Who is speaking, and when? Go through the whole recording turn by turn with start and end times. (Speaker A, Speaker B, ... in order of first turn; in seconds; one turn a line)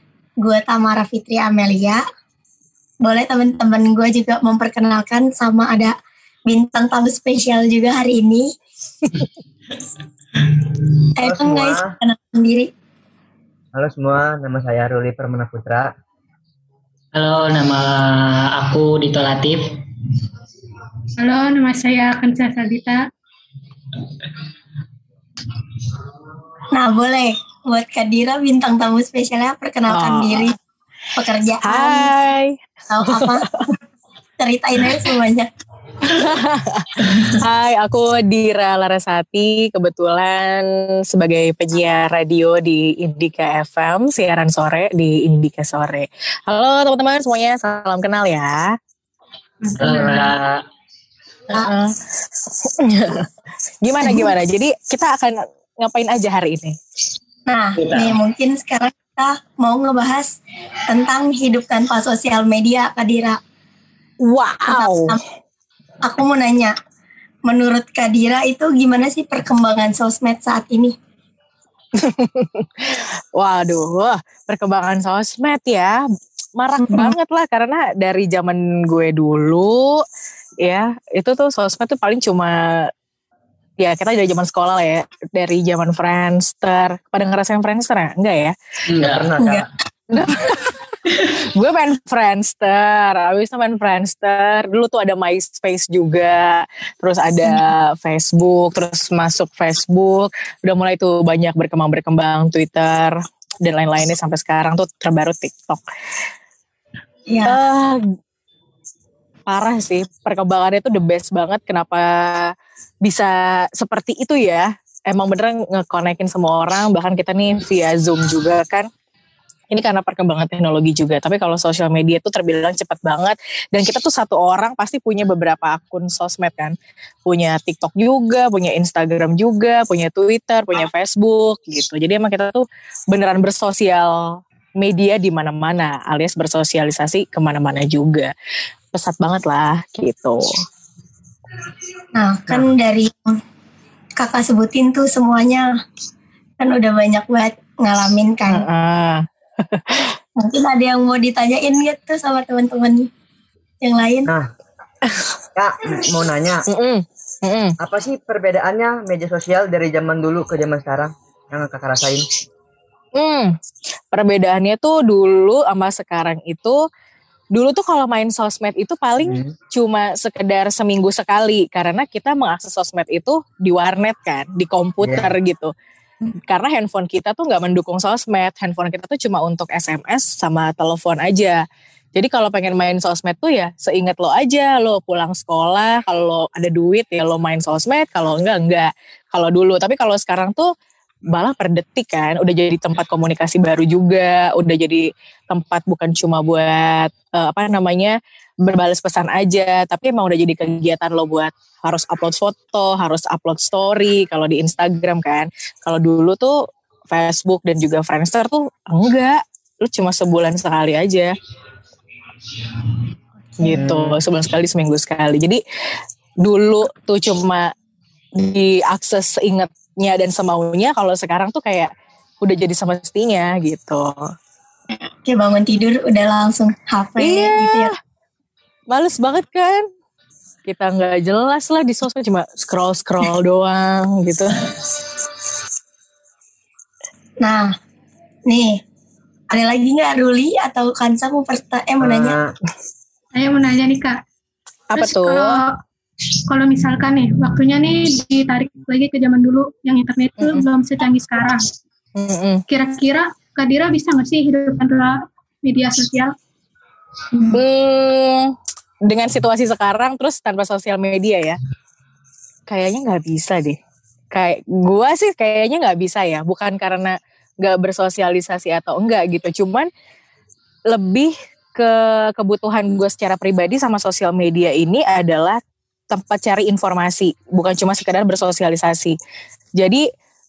Speaker A: 0.4-2.0
Speaker A: 3.0-5.9
Speaker A: 6.5-8.5
Speaker A: 11.2-12.7
Speaker B: 11.2-11.9
Speaker B: 13.7-15.9
Speaker C: 17.1-19.8
Speaker D: 21.2-23.0
Speaker A: 26.7-30.5
Speaker E: 29.9-30.5
Speaker A: 31.1-32.1
Speaker E: 31.6-33.7
Speaker A: 32.9-33.4
Speaker A: 34.4-35.5
Speaker E: 36.0-48.7
Speaker D: 49.6-50.3
Speaker C: 49.8-50.6
Speaker E: 51.5-53.3
Speaker E: 53.8-56.8
Speaker A: 57.5-63.4
Speaker C: 57.8-58.2
Speaker E: 64.2-65.2
Speaker A: 64.7-65.2
Speaker A: 66.0-66.7
Speaker A: 67.5-70.9
Speaker E: 71.9-76.0
Speaker E: 76.6-80.0
Speaker A: 76.8-77.1
Speaker E: 80.6-82.9
Speaker E: 83.8-88.5
Speaker C: 88.9-89.4
Speaker B: 88.9-89.7
Speaker E: 90.1-90.8
Speaker E: 91.3-105.8
Speaker A: 107.3-107.6
Speaker E: 107.5-108.0
Speaker E: 109.5-112.5
Speaker E: 113.0-118.9
Speaker E: 119.7-138.3
Speaker E: 138.9-140.4
Speaker A: 142.2-143.4
Speaker A: 144.2-145.7
Speaker A: 146.6-148.7
Speaker E: 148.5-150.2
Speaker A: 150.4-153.1
Speaker A: 153.8-154.3
Speaker E: 155.0-155.3
Speaker B: 155.6-156.6
Speaker E: 156.7-157.8
Speaker B: 157.8-162.3
Speaker E: 163.1-163.6
Speaker E: 164.1-166.8
Speaker E: 167.5-175.7
Speaker B: 169.2-169.5
Speaker B: 175.0-175.3
Speaker E: 176.2-181.6
Speaker E: 182.1-190.7
Speaker E: 191.3-211.3
Speaker E: 213.6-215.6
Speaker B: 213.6-214.2
Speaker E: 216.4-217.7
Speaker E: 218.3-224.2
Speaker A: 225.0-227.9
Speaker E: 227.2-227.9
Speaker E: 228.9-229.9
Speaker E: 230.6-234.7
Speaker A: 237.4-237.7
Speaker A: 238.5-238.8
Speaker A: 239.5-242.4
Speaker B: 242.0-242.5
Speaker D: 243.3-244.2
Speaker E: 244.9-245.6
Speaker D: 244.9-245.8
Speaker D: 246.3-251.7
Speaker E: 250.4-250.6
Speaker E: 252.2-252.6
Speaker D: 252.7-256.3
Speaker E: 257.5-258.5
Speaker E: 259.0-261.6
Speaker E: 262.7-263.8
Speaker E: 264.3-269.9
Speaker E: 270.9-279.2
Speaker E: 279.8-280.0